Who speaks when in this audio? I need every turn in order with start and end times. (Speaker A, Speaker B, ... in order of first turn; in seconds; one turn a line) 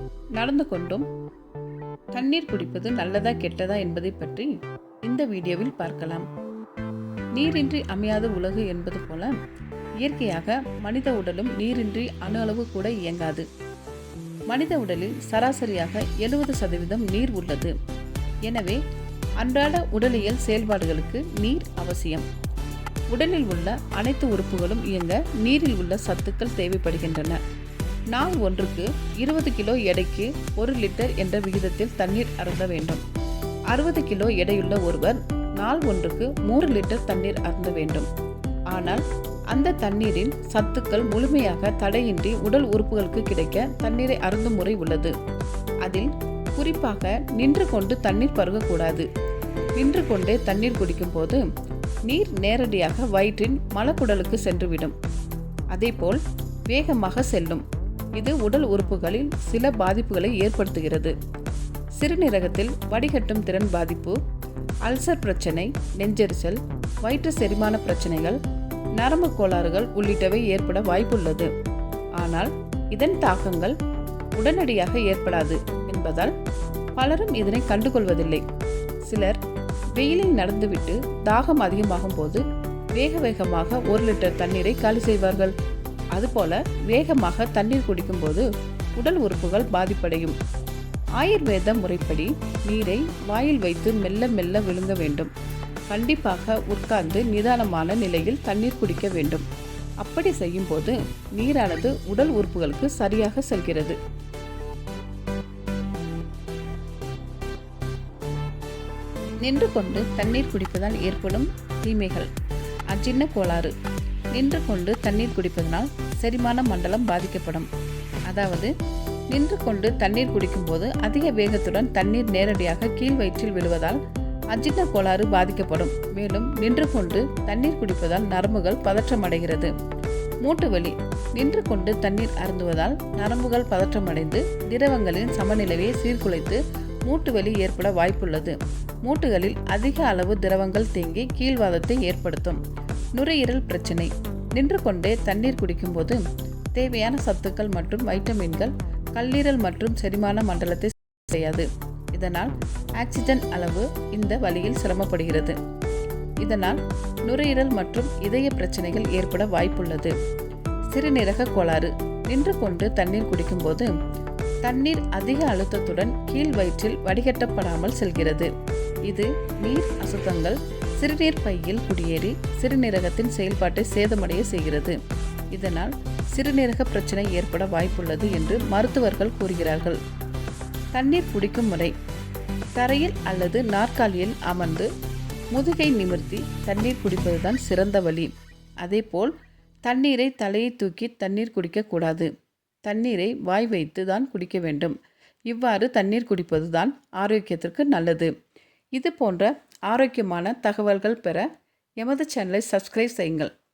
Speaker A: 0.4-1.1
Speaker A: 2.1-4.5
Speaker A: 5.1-6.3
Speaker A: 7.3-9.3
Speaker A: 10.0-13.5
Speaker A: 14.5-17.7
Speaker A: 18.5-18.8
Speaker A: 19.4-22.3
Speaker A: 23.1-27.4
Speaker A: 28.1-33.0
Speaker A: 33.7-38.1
Speaker A: 38.7-45.1
Speaker A: 45.8-49.1
Speaker A: 49.8-51.5
Speaker A: 52.1-55.0
Speaker A: 55.7-57.6
Speaker A: 58.2-61.1
Speaker A: 62.0-64.2
Speaker A: 64.8-68.4
Speaker A: 69.0-71.5
Speaker A: 72.2-73.8
Speaker A: 74.4-76.3
Speaker A: 77.0-78.4
Speaker A: 79.0-79.4
Speaker A: 80.0-82.4
Speaker A: 83.0-85.5
Speaker A: 86.1-90.4
Speaker A: 91.2-95.3
Speaker A: 95.9-99.5
Speaker A: 100.0-104.0
Speaker A: 109.4-112.3
Speaker A: 112.9-113.7
Speaker A: 114.3-117.7
Speaker A: 118.3-118.7
Speaker A: 119.3-124.0
Speaker A: 124.5-129.7
Speaker A: 130.4-142.6
Speaker A: 143.2-146.2
Speaker A: 146.8-155.6
Speaker A: 156.4-160.1
Speaker A: 160.9-163.9
Speaker A: 164.6-168.5
Speaker A: 169.1-175.0
Speaker A: 175.5-180.0
Speaker A: 180.9-181.9
Speaker A: 182.8-184.9
Speaker A: 185.5-189.3
Speaker A: 189.9-192.3
Speaker A: 192.9-195.0
Speaker A: 195.5-198.3
Speaker A: 199.0-201.5
Speaker A: 202.0-203.5